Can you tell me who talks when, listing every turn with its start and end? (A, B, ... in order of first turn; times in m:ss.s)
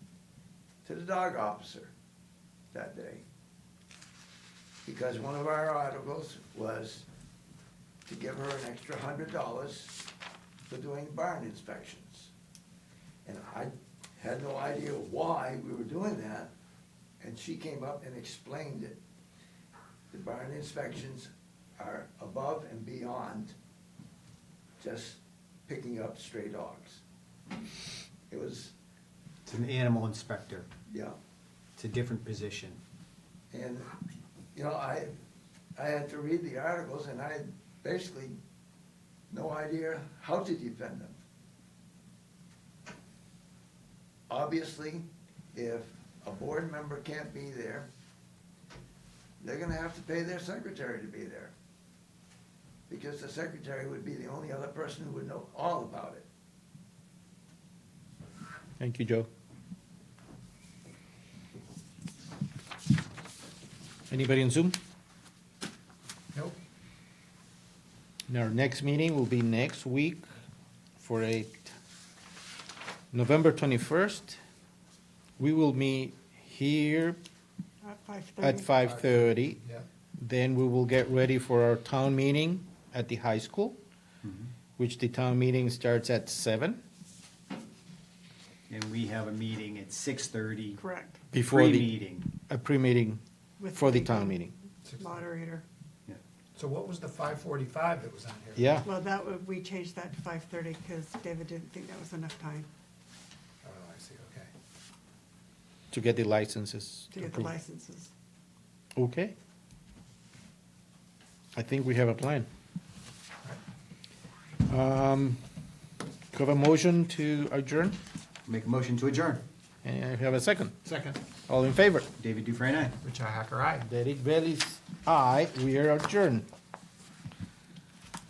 0:00.8-0:01.9 A
0:02.7-0:03.2 A
0:04.8-0:07.0 A
0:08.1-0:10.0 A
0:10.7-0:12.3 A
0:13.2-0:16.5 A
0:17.2-0:19.0 A
0:20.1-0:23.5 A
0:24.8-0:27.0 A
0:28.3-0:28.7 A
0:29.4-0:30.7 B
0:30.9-0:31.2 A
0:31.8-0:32.8 B
0:33.5-0:33.9 A
0:34.5-0:35.1 A
0:35.8-0:38.4 A
0:39.3-0:41.2 A
0:44.3-0:47.9 A
0:49.4-0:51.5 A
0:52.9-0:56.2 A
0:58.8-0:59.3 C
1:04.1-1:04.8 C
1:08.3-1:10.2 C
1:11.0-1:11.7 C
1:13.1-1:14.4 C
1:15.4-1:17.2 C
1:17.8-1:18.8 D
1:18.4-1:19.6 C
1:18.8-1:19.8 E
1:20.2-1:23.8 C
1:24.2-1:24.5 B
1:24.8-1:26.8 C
1:28.7-1:30.8 B
1:30.8-1:31.2 D
1:31.3-1:33.2 C
1:31.5-1:32.3 B
1:33.6-1:34.4 D
1:33.7-1:34.5 C
1:34.8-1:35.2 E
1:35.0-1:35.6 D
1:36.5-1:38.8 E
1:38.6-1:38.8 C
1:38.8-1:42.7 D
1:43.6-1:44.5 E
1:45.9-1:47.5 C
1:47.1-1:48.1 D
1:49.0-1:49.3 C
1:51.5-1:52.5 C
1:54.6-1:55.4 C
1:56.3-1:58.0 C
1:58.4-1:59.4 B
1:59.8-2:00.8 C
2:00.8-2:01.2 E
2:01.5-2:02.1 C
2:02.2-2:03.0 B
2:03.0-2:03.9 E
2:03.8-2:06.5 C